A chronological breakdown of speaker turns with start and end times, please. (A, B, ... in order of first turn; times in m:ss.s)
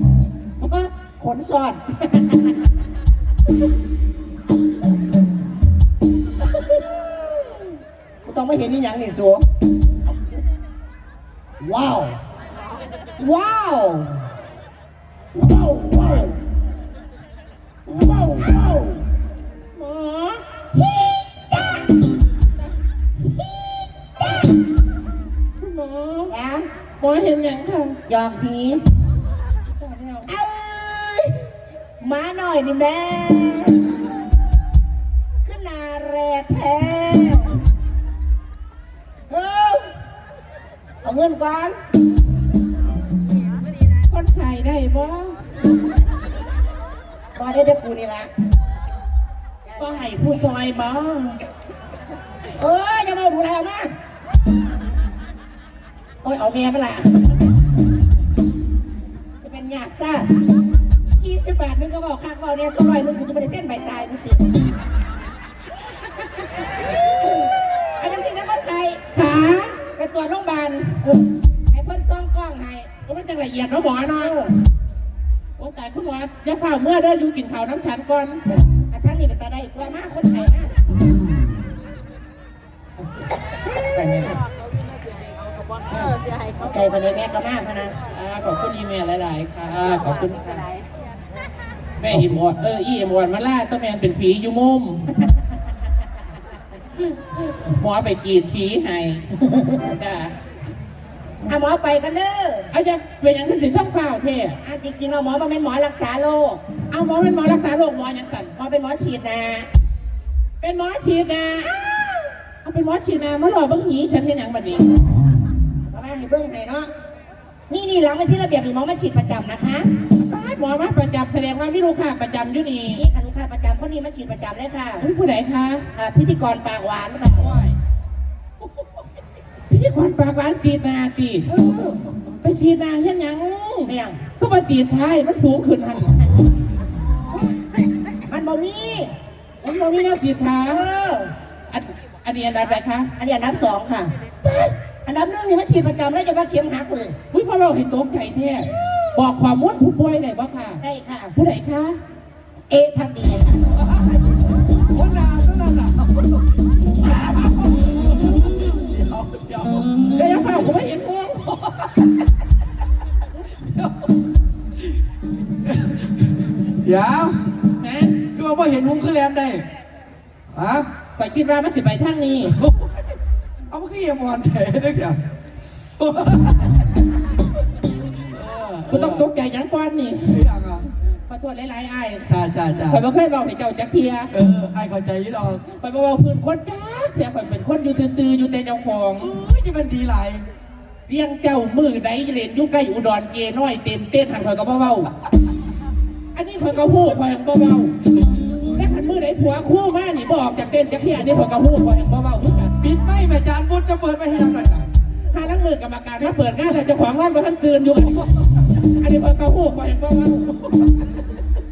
0:00.6-0:02.5 A
0:06.6-0:07.6 A
0:08.2-0:09.4 A
0:11.6-0:12.2 A
0:13.2-0:14.2 A
0:15.3-0:16.4 A
0:17.9-0:19.0 A
0:19.8-0:22.1 A
0:23.2-0:24.6 A
0:25.6-0:26.3 B
0:26.3-0:26.7 A
0:27.0-0:28.0 B
0:28.1-0:28.8 A
0:29.7-0:30.3 B
0:30.3-0:31.5 A
0:32.0-0:33.9 A
0:35.4-0:37.6 A
0:39.3-0:39.9 A
0:41.0-0:41.8 A
0:44.1-0:45.4 B
0:47.3-0:48.3 A
0:49.6-0:50.0 A
0:49.8-0:51.4 B
0:52.5-0:53.9 A
0:56.2-0:57.5 A
0:59.4-1:00.5 A
1:01.1-1:04.5 A
1:07.2-1:09.0 A
1:09.1-1:09.8 B
1:10.0-1:12.9 A
1:13.0-1:14.4 B
1:14.2-1:14.6 A
1:15.6-1:18.4 B
1:18.7-1:20.7 A
1:23.6-1:24.4 A
1:25.9-1:27.9 A
1:28.1-1:30.7 B
1:32.0-1:35.0 B
1:37.0-1:39.2 B
1:39.5-1:39.9 A
1:39.8-1:40.4 B
1:41.4-1:42.7 A
1:42.7-1:44.6 B
1:44.6-1:46.6 A
1:46.9-1:48.5 B
1:48.6-1:49.7 A
1:50.6-1:51.7 B
1:51.6-1:52.2 A
1:52.6-1:54.9 B
1:55.8-1:56.9 A
1:57.7-1:59.9 A
2:00.2-2:03.0 B
2:02.9-2:05.0 A
2:05.0-2:05.8 B
2:06.0-2:07.5 A
2:07.4-2:07.8 B
2:09.7-2:11.5 B
2:11.5-2:12.0 A
2:12.4-2:16.2 B
2:13.8-2:14.2 A
2:18.2-2:19.1 A
2:19.6-2:20.9 B
2:20.7-2:21.3 A
2:21.7-2:23.1 B
2:23.2-2:27.2 A
2:27.3-2:30.8 B
2:30.8-2:31.3 A
2:31.3-2:32.0 B
2:32.7-2:33.7 A
2:34.9-2:36.3 C
2:37.2-2:40.0 C
2:40.1-2:41.4 B
2:41.5-2:42.1 C
2:43.5-2:44.1 C
2:45.6-2:46.3 C
2:46.8-2:47.4 C
2:47.8-2:48.2 B
2:48.2-2:49.7 C
2:50.5-2:50.9 C
2:51.2-2:52.6 B
2:52.6-2:53.1 C
2:53.7-2:55.2 C
2:56.0-2:56.9 C
2:58.3-2:59.2 C
2:58.9-3:00.4 B
3:00.3-3:00.9 C
3:01.3-3:02.3 B
3:02.3-3:03.0 C
3:02.8-3:04.3 B
3:04.3-3:05.6 C
3:05.7-3:09.3 B
3:09.2-3:10.4 C
3:11.1-3:15.1 B
3:16.3-3:17.9 B
3:18.7-3:22.8 B
3:22.8-3:24.9 C
3:25.3-3:30.6 B